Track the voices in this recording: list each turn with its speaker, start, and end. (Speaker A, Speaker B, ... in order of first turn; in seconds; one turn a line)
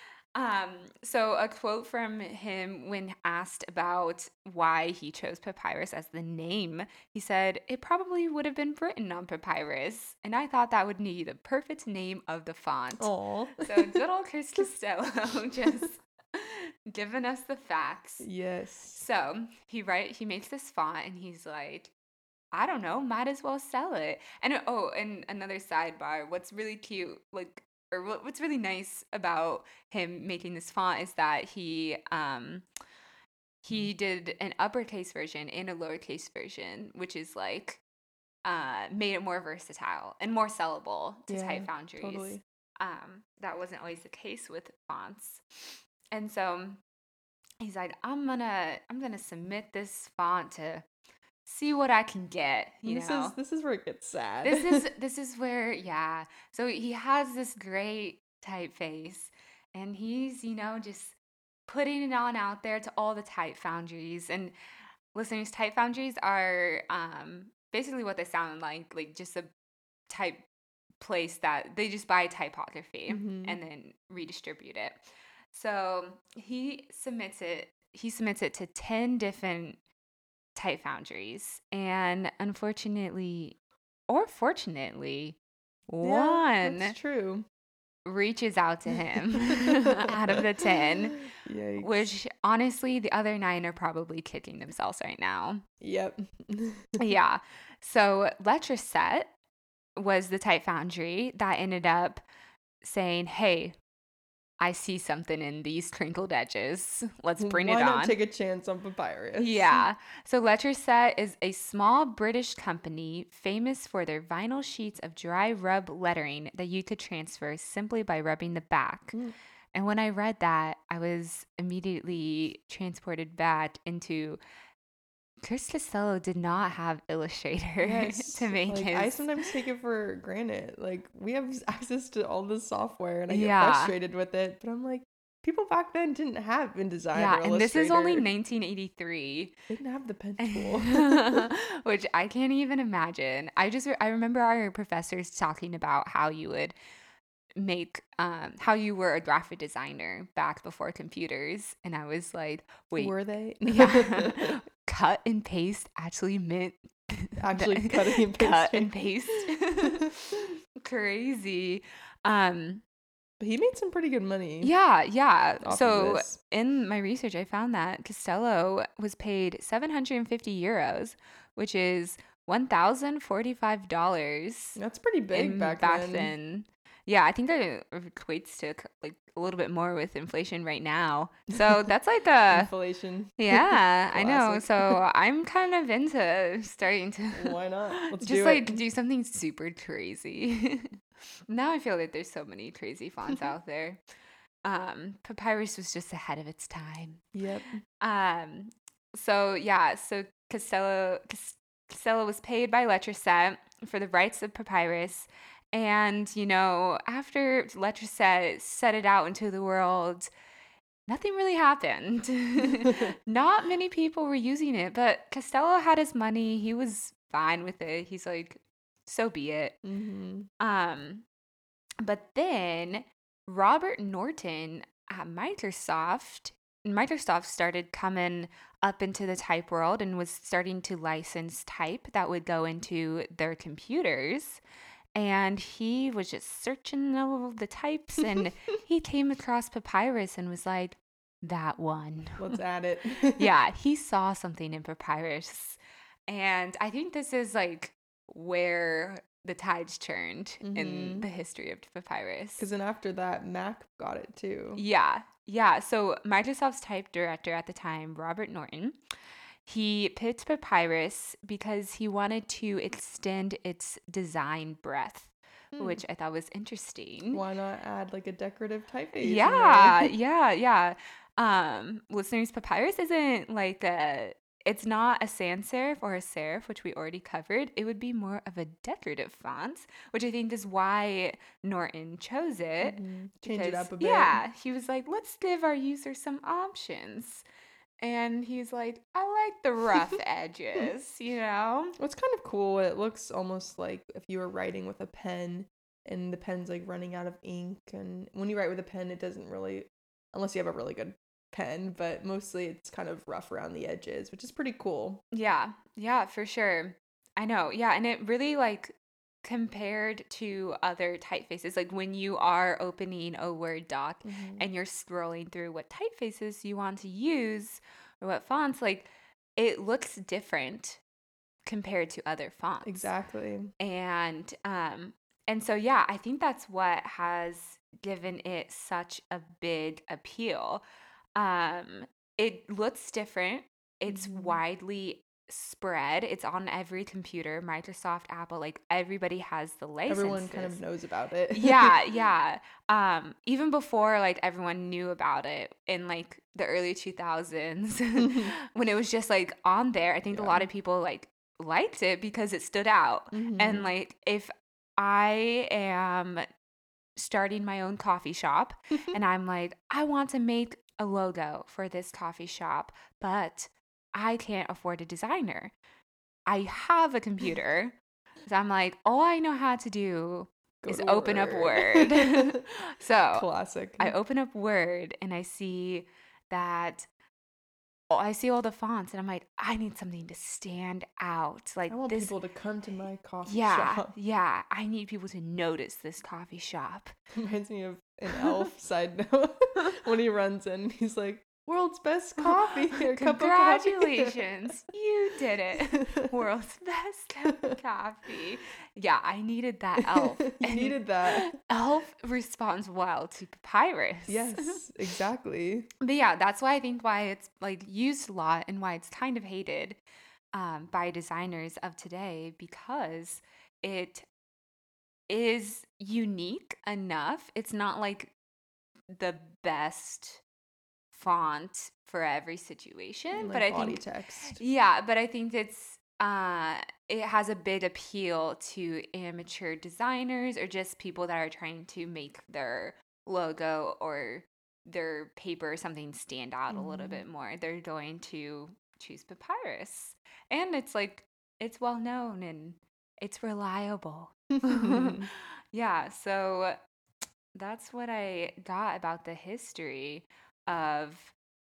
Speaker A: 0.3-18.3
Speaker B: 13.0-14.0
Speaker B: 18.2-19.0
Speaker A: 18.9-21.9
Speaker A: 22.5-32.6
Speaker A: 33.6-37.8
Speaker A: 38.4-46.8
Speaker B: 41.3-42.4
Speaker A: 47.6-50.9
Speaker A: 51.5-53.4
Speaker B: 52.9-54.9
Speaker A: 54.5-61.2
Speaker A: 61.7-64.5
Speaker A: 65.1-69.5
Speaker A: 70.1-70.4
Speaker A: 71.0-79.8
Speaker B: 73.1-73.6
Speaker A: 80.6-83.6
Speaker A: 84.1-85.4
Speaker A: 85.9-87.0
Speaker B: 86.0-87.5
Speaker A: 88.0-91.3
Speaker B: 89.3-90.5
Speaker B: 91.3-92.1
Speaker A: 91.8-95.6
Speaker B: 95.8-97.0
Speaker A: 97.0-99.3
Speaker A: 100.0-102.2
Speaker A: 102.8-103.8
Speaker A: 104.6-108.2
Speaker B: 107.4-109.8
Speaker A: 109.4-119.2
Speaker A: 119.7-124.4
Speaker A: 125.4-129.2
Speaker B: 127.8-138.3
Speaker A: 133.3-133.9
Speaker A: 137.1-139.6
Speaker B: 139.7-141.5
Speaker A: 140.4-146.8
Speaker A: 147.6-153.1
Speaker B: 153.0-154.6
Speaker A: 153.7-162.8
Speaker B: 157.4-158.9
Speaker B: 159.5-160.0
Speaker B: 163.4-164.7
Speaker A: 164.6-174.8
Speaker B: 165.6-166.4
Speaker B: 174.8-176.3
Speaker A: 175.3-182.7
Speaker B: 182.5-185.0
Speaker A: 183.4-191.0
Speaker B: 187.3-188.8
Speaker A: 191.5-194.0
Speaker A: 194.6-197.2
Speaker B: 197.3-197.8
Speaker A: 198.0-210.3
Speaker A: 211.1-219.8
Speaker B: 212.6-213.1
Speaker B: 219.8-220.5
Speaker A: 220.6-221.3
Speaker A: 222.0-234.6
Speaker A: 235.2-242.6
Speaker B: 242.4-243.5
Speaker A: 243.4-252.7
Speaker B: 250.6-251.3
Speaker B: 252.6-254.8
Speaker A: 254.8-259.0
Speaker A: 259.7-267.4
Speaker B: 265.8-266.0
Speaker B: 267.3-270.1
Speaker A: 269.2-287.4
Speaker B: 282.8-284.4
Speaker A: 288.0-292.0
Speaker B: 292.0-305.2
Speaker A: 305.3-321.0
Speaker B: 314.2-314.6
Speaker A: 321.7-323.1
Speaker B: 322.8-323.7
Speaker A: 323.8-330.8
Speaker A: 331.4-340.8
Speaker B: 334.1-334.6
Speaker B: 340.1-342.0
Speaker A: 341.5-356.5
Speaker B: 348.2-348.5
Speaker B: 350.3-350.7
Speaker B: 353.3-353.9
Speaker A: 357.2-365.7
Speaker A: 366.5-373.5
Speaker B: 370.8-372.6
Speaker B: 373.3-374.1
Speaker A: 374.0-377.1
Speaker A: 378.1-382.4
Speaker B: 381.9-384.1
Speaker A: 383.4-387.1
Speaker B: 387.3-394.4
Speaker A: 392.9-404.8
Speaker B: 395.9-396.3
Speaker B: 400.0-401.5
Speaker B: 404.3-405.9
Speaker A: 406.0-410.0
Speaker A: 410.5-414.2
Speaker A: 415.3-418.3
Speaker A: 419.1-420.4
Speaker A: 421.1-446.8
Speaker B: 423.4-424.6
Speaker B: 436.7-437.2
Speaker B: 444.6-445.3
Speaker A: 447.6-451.3